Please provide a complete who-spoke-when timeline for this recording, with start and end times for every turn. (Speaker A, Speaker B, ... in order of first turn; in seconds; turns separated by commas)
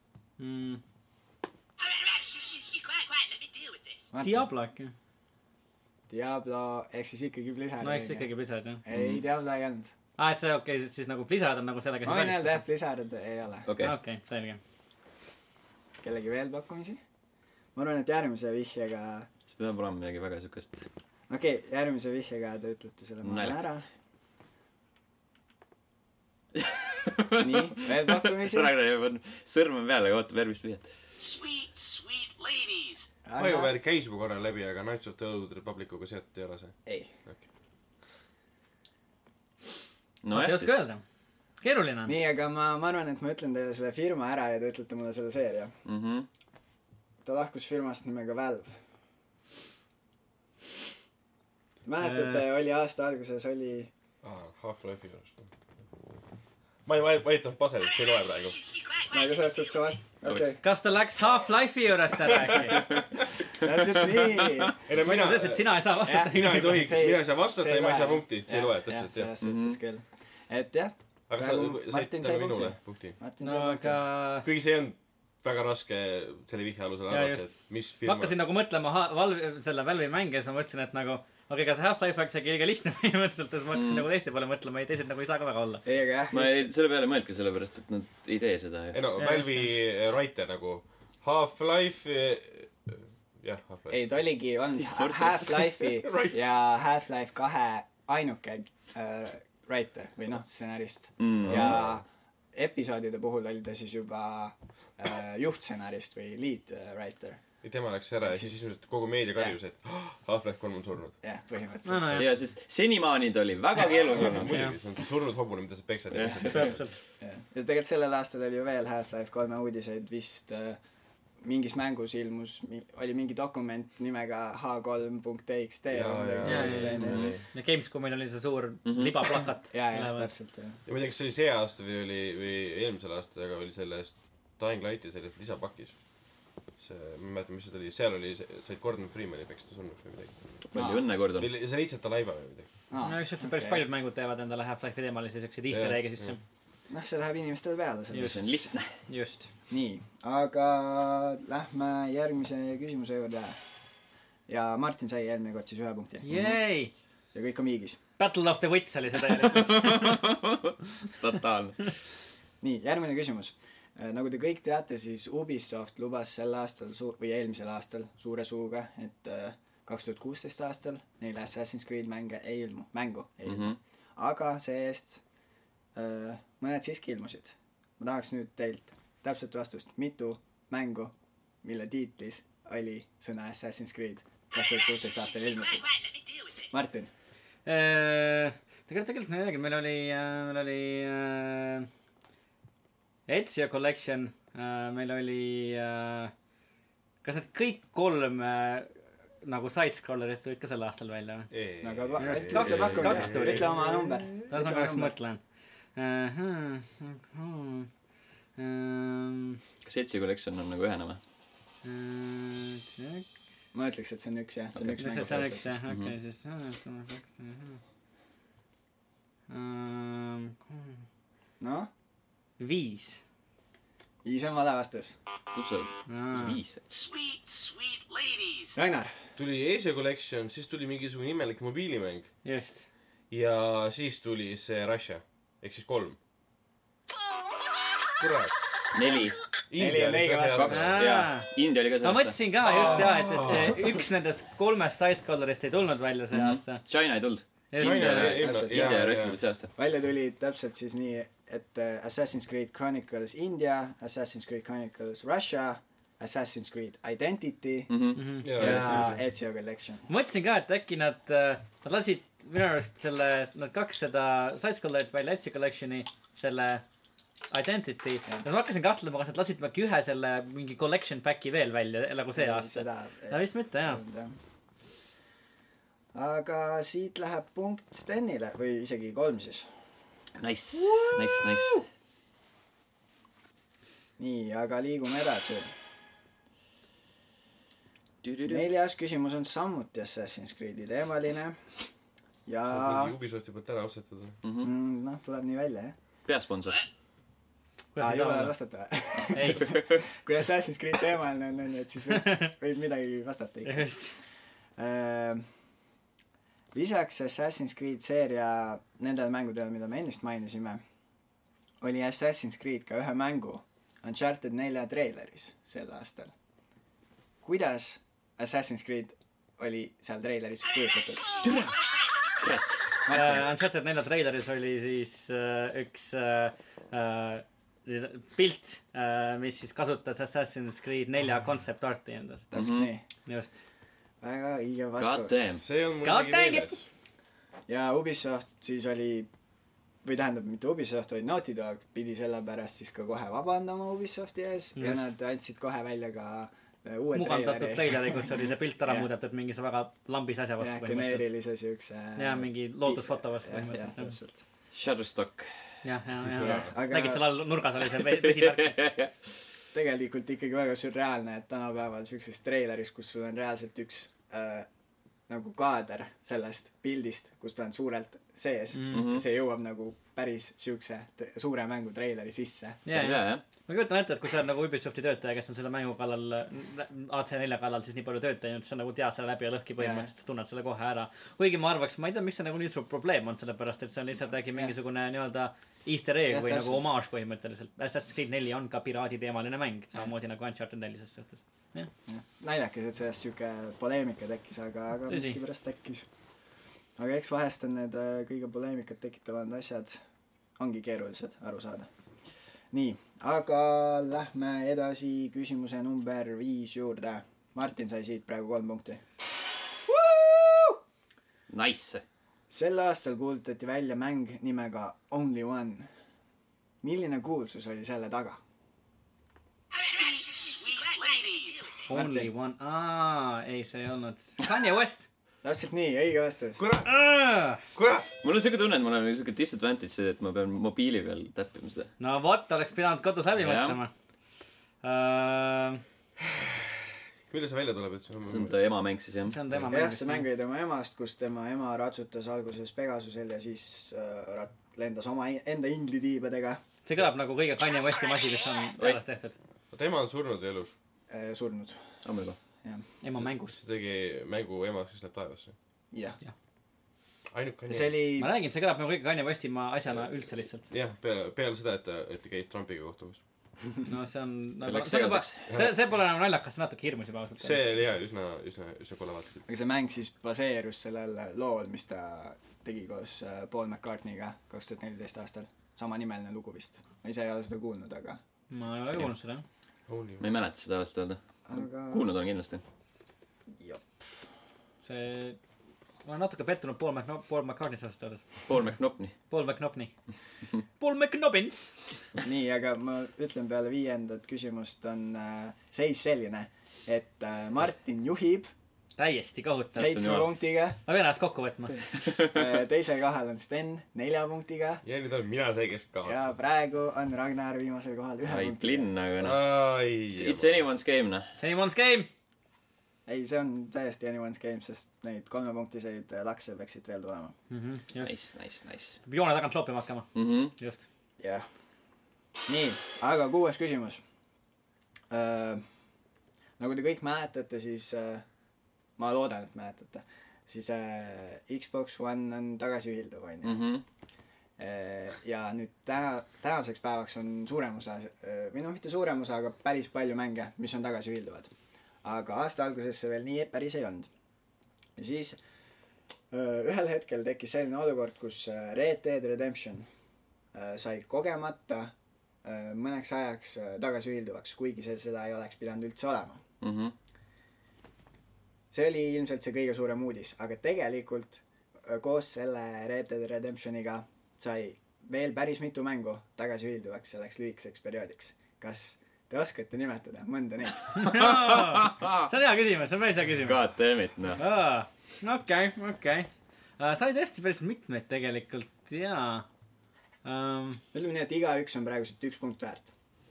Speaker A: 0.4-0.8, Speaker B: 1.8-4.1, Speaker C: 4.1-4.5, Speaker A: 4.2-4.9, Speaker C: 6.1-8.3, Speaker A: 7.8-8.8, Speaker C: 8.8-9.9, Speaker D: 8.9-9.2, Speaker A: 10.2-12.6, Speaker C: 12.0-13.7, Speaker D: 13.7-13.9, Speaker A: 13.8-14.6, Speaker C: 16.0-17.0, Speaker C: 17.7-19.3, Speaker D: 19.5-20.9, Speaker C: 21.3-23.9, Speaker D: 23.2-23.6, Speaker D: 26.6-30.9, Speaker C: 27.4-28.7, Speaker B: 31.2-33.2, Speaker C: 33.2-33.8, Speaker E: 33.4-37.4, Speaker C: 36.9-37.1, Speaker D: 40.2-40.8, Speaker A: 40.3-41.0, Speaker A: 41.6-42.2, Speaker C: 42.0-45.7, Speaker D: 45.8-46.3, Speaker C: 47.2-48.8, Speaker C: 51.8-53.9, Speaker A: 52.0-52.5, Speaker E: 54.2-55.5, Speaker E: 56.8-58.6, Speaker B: 57.8-59.7, Speaker C: 59.1-60.6, Speaker A: 60.6-62.8, Speaker C: 63.5-64.8, Speaker D: 63.8-64.7, Speaker E: 64.8-69.3, Speaker A: 65.0-66.9, Speaker C: 66.0-74.0, Speaker D: 69.4-69.8, Speaker E: 71.3-73.2, Speaker A: 73.4-74.5, Speaker E: 74.4-78.3, Speaker A: 77.1-85.8, Speaker D: 83.7-84.0, Speaker C: 85.8-86.7, Speaker D: 86.3-89.0, Speaker E: 88.9-94.0, Speaker A: 89.2-89.7, Speaker C: 93.9-107.4, Speaker D: 94.8-95.9, Speaker E: 96.0-96.4, Speaker D: 101.2-101.8, Speaker E: 101.4-102.0, Speaker E: 107.6-111.2, Speaker C: 108.2-108.7, Speaker C: 111.2-112.3, Speaker A: 111.8-112.3, Speaker D: 112.1-114.6, Speaker E: 114.3-116.8, Speaker D: 116.1-116.8, Speaker A: 116.5-116.9, Speaker C: 117.2-120.8, Speaker C: 121.4-127.3, Speaker E: 125.9-127.4, Speaker A: 126.4-130.3, Speaker D: 127.0-127.3, Speaker D: 128.8-129.3, Speaker C: 129.7-130.8, Speaker E: 130.9-136.0, Speaker E: 136.8-140.3, Speaker D: 140.7-141.5, Speaker C: 140.7-141.0, Speaker E: 141.4-142.7, Speaker C: 142.9-143.8, Speaker A: 143.0-146.4, Speaker E: 145.7-146.3, Speaker C: 146.9-148.7, Speaker A: 148.1-148.4, Speaker D: 148.1-148.9, Speaker A: 149.1-149.5, Speaker C: 149.7-153.6, Speaker C: 154.5-156.2, Speaker A: 156.2-156.9, Speaker C: 157.3-158.0, Speaker A: 158.2-160.2, Speaker D: 159.7-161.9, Speaker C: 162.6-175.2, Speaker D: 173.4-173.8, Speaker C: 175.9-185.9, Speaker B: 184.5-186.7, Speaker C: 186.7-187.1, Speaker A: 187.7-191.9, Speaker A: 193.3-196.3, Speaker A: 197.2-198.9, Speaker A: 199.4-201.5, Speaker E: 201.5-203.6, Speaker C: 201.8-205.1, Speaker A: 202.2-203.8, Speaker A: 204.4-205.4, Speaker A: 205.9-207.9, Speaker A: 208.6-209.6, Speaker D: 209.8-211.2, Speaker A: 211.8-213.3, Speaker C: 213.7-215.8, Speaker A: 215.0-217.8, Speaker D: 215.9-216.1, Speaker A: 219.5-221.0, Speaker C: 221.6-221.9, Speaker A: 222.6-223.2, Speaker C: 224.2-225.2, Speaker D: 225.5-226.9, Speaker A: 226.1-226.6, Speaker B: 226.9-228.8, Speaker C: 228.7-229.1, Speaker E: 229.3-232.3, Speaker A: 232.4-232.9, Speaker E: 233.3-236.2, Speaker E: 238.2-238.5, Speaker D: 238.9-239.4, Speaker E: 239.7-240.9, Speaker C: 239.7-240.9, Speaker D: 240.5-242.4, Speaker A: 240.6-246.8, Speaker E: 242.7-243.7, Speaker D: 246.3-249.7, Speaker A: 247.7-248.4, Speaker E: 247.8-249.4, Speaker C: 248.4-249.0, Speaker C: 249.8-257.9, Speaker D: 257.9-259.0, Speaker A: 258.1-258.9, Speaker E: 258.4-259.2, Speaker C: 258.4-260.1, Speaker A: 260.1-266.8, Speaker A: 267.5-274.0, Speaker C: 272.3-274.4, Speaker C: 276.1-279.7, Speaker D: 280.4-281.8, Speaker C: 284.2-285.7, Speaker D: 288.2-288.7, Speaker C: 288.5-291.6, Speaker C: 292.4-293.1, Speaker E: 292.7-294.4, Speaker D: 294.4-294.7, Speaker C: 294.6-295.9, Speaker D: 296.2-296.8, Speaker A: 297.9-298.5, Speaker C: 298.0-303.9, Speaker D: 299.3-300.0, Speaker A: 299.3-299.6, Speaker A: 302.1-302.5, Speaker A: 303.6-304.1, Speaker C: 304.8-305.4, Speaker C: 306.7-310.8, Speaker C: 311.8-316.3, Speaker C: 317.4-321.4, Speaker B: 321.2-322.4, Speaker D: 321.4-321.7, Speaker D: 322.4-322.8, Speaker C: 323.1-323.5, Speaker A: 323.1-332.5, Speaker C: 332.5-333.0, Speaker D: 332.5-332.9, Speaker A: 333.2-333.5, Speaker C: 334.2-335.5, Speaker D: 335.0-335.6, Speaker E: 335.6-336.8, Speaker A: 336.0-336.7, Speaker C: 337.7-339.3, Speaker C: 340.0-349.1, Speaker A: 344.8-345.0, Speaker A: 347.1-351.3, Speaker C: 350.6-354.4, Speaker A: 352.1-354.1, Speaker D: 354.7-355.5, Speaker A: 355.8-358.9, Speaker E: 356.3-356.7, Speaker C: 356.4-357.3, Speaker D: 358.2-359.1, Speaker C: 359.7-364.7, Speaker C: 365.3-372.8, Speaker A: 368.7-369.1, Speaker D: 368.9-369.2, Speaker A: 372.9-391.9, Speaker D: 372.9-373.4, Speaker C: 379.8-380.1, Speaker C: 386.3-386.9, Speaker C: 392.1-396.1, Speaker A: 395.1-395.4, Speaker C: 397.0-400.0, Speaker C: 400.6-401.9, Speaker C: 402.7-409.0, Speaker A: 409.9-410.8, Speaker D: 411.5-412.0, Speaker C: 412.5-415.9, Speaker C: 416.8-418.4, Speaker B: 419.7-421.9, Speaker A: 421.9-425.1, Speaker C: 421.9-422.3, Speaker C: 425.4-426.6, Speaker E: 426.6-426.9, Speaker A: 426.8-427.6, Speaker E: 427.7-428.1, Speaker D: 428.2-431.9, Speaker A: 432.0-433.9, Speaker D: 433.4-433.8, Speaker A: 434.8-435.8, Speaker E: 436.2-436.7, Speaker E: 437.3-438.6, Speaker D: 438.3-439.4, Speaker A: 439.2-440.3, Speaker C: 439.7-446.6, Speaker A: 446.8-449.3, Speaker E: 449.7-450.7, Speaker C: 451.1-451.8, Speaker D: 452.0-452.4, Speaker A: 453.0-453.6, Speaker E: 453.2-455.5, Speaker C: 455.9-456.2, Speaker E: 457.3-458.1, Speaker C: 457.7-458.3, Speaker A: 458.2-460.7, Speaker E: 460.7-463.2, Speaker A: 463.9-467.8, Speaker D: 464.6-465.4, Speaker E: 467.4-469.4, Speaker C: 469.4-478.2, Speaker A: 478.5-479.4, Speaker E: 479.9-480.3, Speaker D: 480.2-482.6, Speaker C: 481.5-482.1, Speaker C: 483.5-484.2, Speaker A: 484.8-485.4, Speaker A: 486.0-488.2, Speaker D: 488.5-489.1, Speaker A: 489.3-489.9, Speaker A: 490.8-491.7, Speaker C: 492.2-498.5, Speaker A: 499.0-500.3, Speaker C: 499.7-500.8, Speaker D: 499.8-500.3, Speaker A: 500.8-501.9, Speaker C: 502.3-504.8, Speaker E: 504.8-506.2, Speaker C: 506.0-508.9, Speaker D: 508.2-511.3, Speaker E: 509.2-510.7, Speaker A: 511.4-512.1, Speaker C: 513.0-517.3, Speaker A: 517.5-518.2, Speaker D: 518.0-519.0, Speaker A: 519.0-520.1, Speaker D: 520.1-520.5, Speaker A: 520.6-520.8, Speaker C: 521.2-521.5, Speaker C: 522.5-524.0, Speaker C: 525.1-525.6, Speaker C: 526.6-528.2, Speaker C: 529.0-533.7, Speaker D: 533.4-533.8, Speaker C: 534.6-541.5, Speaker C: 542.0-544.1, Speaker C: 545.0-545.4, Speaker C: 546.3-549.9, Speaker C: 550.5-556.4, Speaker D: 556.6-556.9, Speaker C: 558.7-571.1, Speaker A: 571.0-573.6, Speaker D: 571.0-572.1, Speaker D: 573.4-574.4, Speaker A: 574.4-579.5, Speaker A: 580.2-580.8, Speaker C: 580.9-582.9